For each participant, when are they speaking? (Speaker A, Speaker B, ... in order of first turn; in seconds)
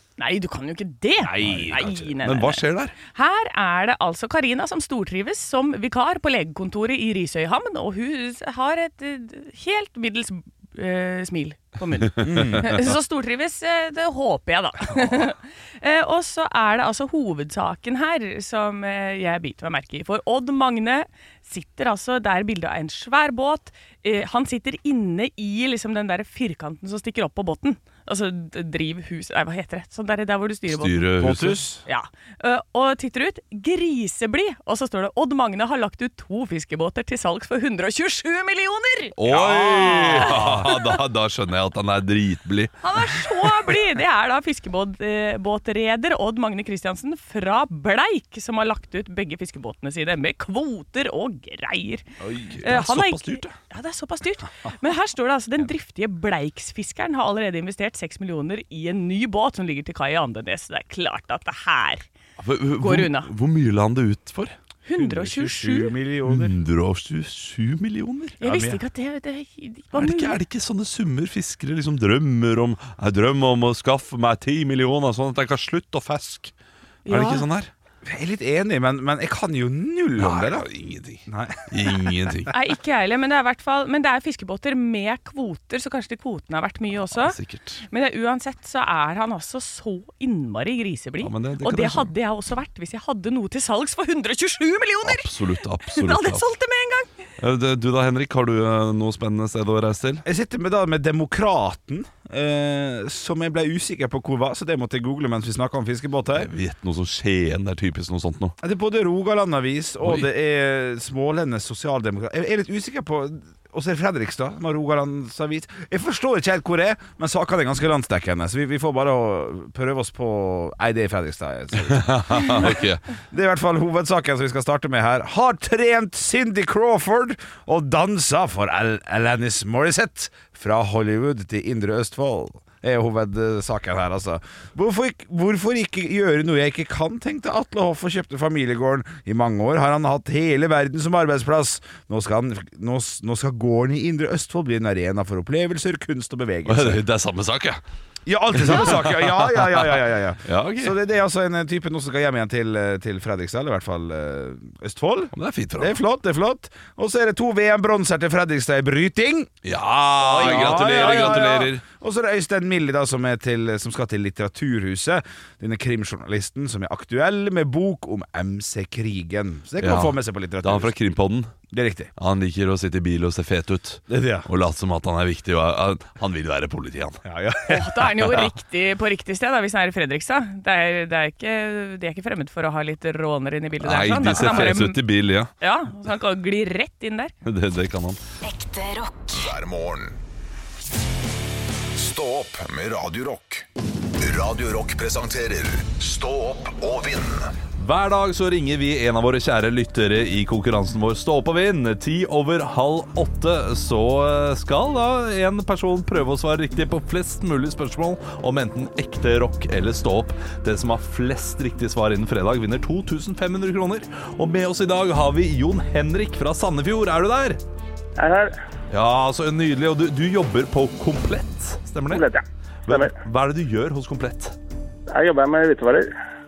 Speaker A: 0.2-2.6, 3.1-31.1, 31.9-39.2, 39.8-40.9, 42.8-52.0, 52.6-62.0, 62.8-63.3, 64.8-66.0, 68.4-70.4, 77.0-77.5, 82.5-87.4, 87.9-97.2, 177.7-185.1, 185.6-187.3
Speaker B: 1.2-2.1, 12.2-12.7, 31.2-31.8, 39.3-40.7, 65.0-66.5, 68.4-68.8, 78.0-80.7, 81.3-82.0, 100.2-106.5, 108.6-147.0, 148.3-159.5, 160.2-170.9, 171.7-172.1, 174.1-174.5, 177.2-178.2, 184.3-184.7
Speaker C: 1.5-3.0, 12.2-12.6, 30.7-31.6, 39.2-42.7, 52.2-53.5, 62.4-64.6, 66.3-68.4, 69.9-76.5, 77.1-77.7, 80.2-82.5, 87.1-87.8, 91.2-92.1, 95.0-96.4, 97.4-100.2, 106.3-108.6, 110.0-110.3, 121.8-123.0, 146.7-147.8, 148.5-151.0, 155.3-156.0, 159.6-161.8, 169.8-171.5, 172.2-177.2, 183.8-185.5, 187.4-188.2, 197.8-217.6, 218.9-222.3, 222.9-224.6
Speaker D: 188.5-190.2, 191.9-193.7, 194.2-197.5
Speaker E: 218.2-218.6, 222.1-223.1, 225.1-226.1